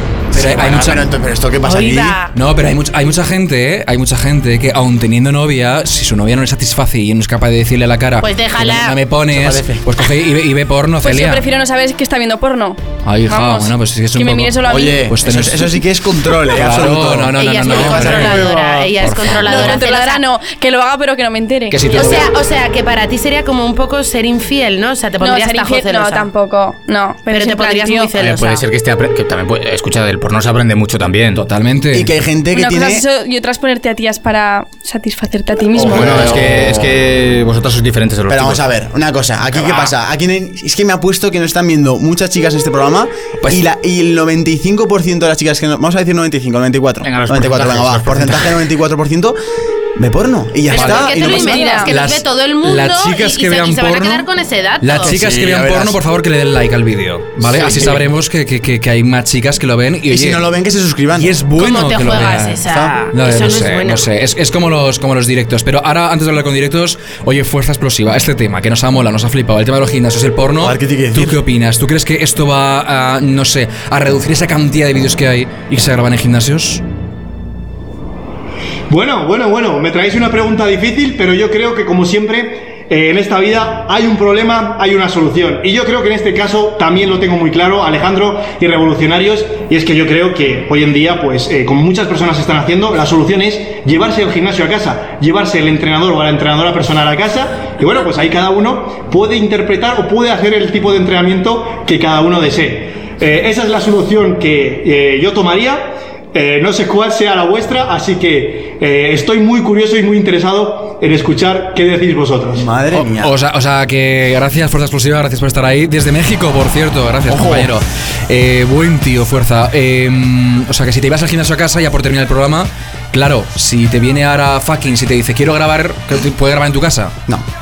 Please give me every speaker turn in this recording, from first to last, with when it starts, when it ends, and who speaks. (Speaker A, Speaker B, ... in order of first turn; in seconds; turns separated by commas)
Speaker A: 0.3-1.1, Speaker B: 0.3-2.2, Speaker C: 1.6-2.3, Speaker A: 2.3-11.4, Speaker C: 8.2-9.0, Speaker B: 9.3-9.9, Speaker D: 11.0-15.1, Speaker A: 13.0-15.8, Speaker B: 14.7-18.6, Speaker A: 16.4-19.8, Speaker C: 17.3-20.2, Speaker D: 19.4-21.8, Speaker A: 21.7-22.4, Speaker C: 21.9-26.3, Speaker D: 25.2-28.1, Speaker C: 27.3-28.7, Speaker E: 28.1-31.4, Speaker A: 31.3-32.1, Speaker B: 31.9-33.0, Speaker D: 32.5-36.3, Speaker B: 35.8-36.9, Speaker E: 35.8-38.6, Speaker B: 38.3-49.4, Speaker E: 39.6-39.9, Speaker E: 47.0-48.6, Speaker B: 50.0-51.8, Speaker C: 50.7-55.2, Speaker D: 50.7-51.9, Speaker A: 50.7-51.1, Speaker A: 51.8-54.3, Speaker A: 54.8-60.5, Speaker B: 55.0-56.0, Speaker B: 57.4-58.1, Speaker B: 60.1-61.4, Speaker A: 61.1-76.8, Speaker C: 61.6-64.1, Speaker B: 62.7-63.0, Speaker B: 70.6-71.4, Speaker F: 78.9-112.7, Speaker B: 112.6-113.3, Speaker A: 112.9-127.2, Speaker B: 117.3-117.7